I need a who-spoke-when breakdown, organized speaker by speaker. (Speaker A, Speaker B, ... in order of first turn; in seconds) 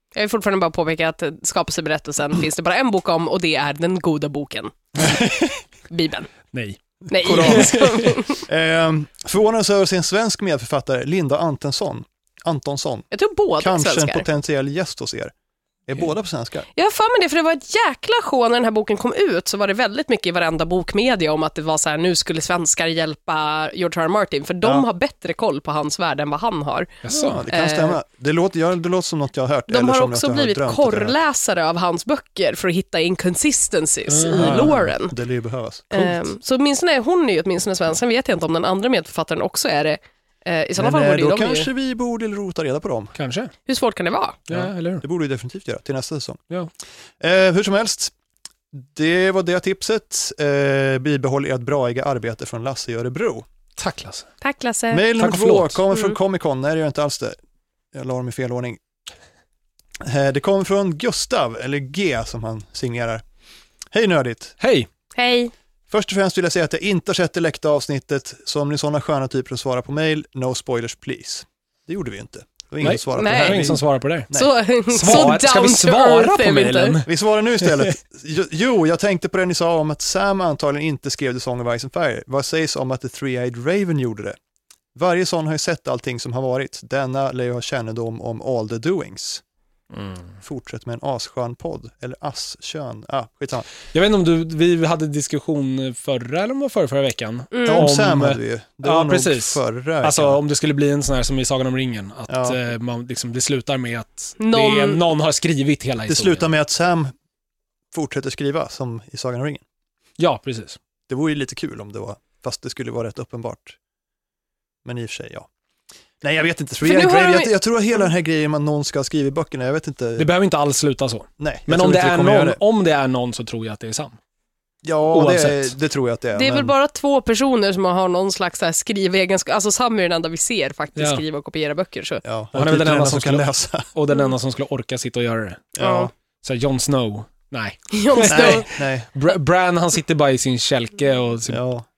Speaker A: 0.1-5.1, 5.9-6.3, 7.1-8.4, 13.1-14.2, 16.8-28.0, 29.7-35.1, 35.9-41.7, 43.7-44.4, 54.4-55.0, 55.9-56.2, 65.2-65.5, 73.1-73.8, 74.3-77.0, 97.5-97.9, 104.4-105.0, 116.8-117.5, 126.3-132.2, 135.8-136.1, 137.9-138.7
Speaker B: 5.0-5.6, 7.2-7.8, 8.4-13.1, 13.6-15.3, 15.9-16.7, 27.3-31.2, 34.4-35.9, 40.8-43.1, 44.5-46.4, 47.2-48.1, 48.7-53.5, 54.9-57.4, 57.9-58.8, 60.0-63.2, 63.9-64.6, 65.9-74.5, 75.1-75.3, 77.1-84.4, 85.0-89.4, 90.4-93.7, 97.7-100.4, 102.3-102.6, 106.1-107.1, 107.9-109.6, 111.1-113.8, 114.8-115.5, 116.2-120.3, 121.4-122.6, 124.8-126.7, 132.2-133.9, 135.8-136.1, 138.3-139.1, 141.5-141.9
Speaker C: 6.5-8.2, 27.0-27.4, 34.1-34.8, 35.9-36.2, 43.2-43.5, 44.5-45.0, 53.8-54.3, 55.2-55.8, 64.6-64.9, 72.8-74.3, 74.9-77.9, 90.0-90.3, 93.9-106.5, 110.2-110.8, 120.2-124.2, 125.1-125.7, 131.0-131.2, 132.6-135.7, 136.4-141.6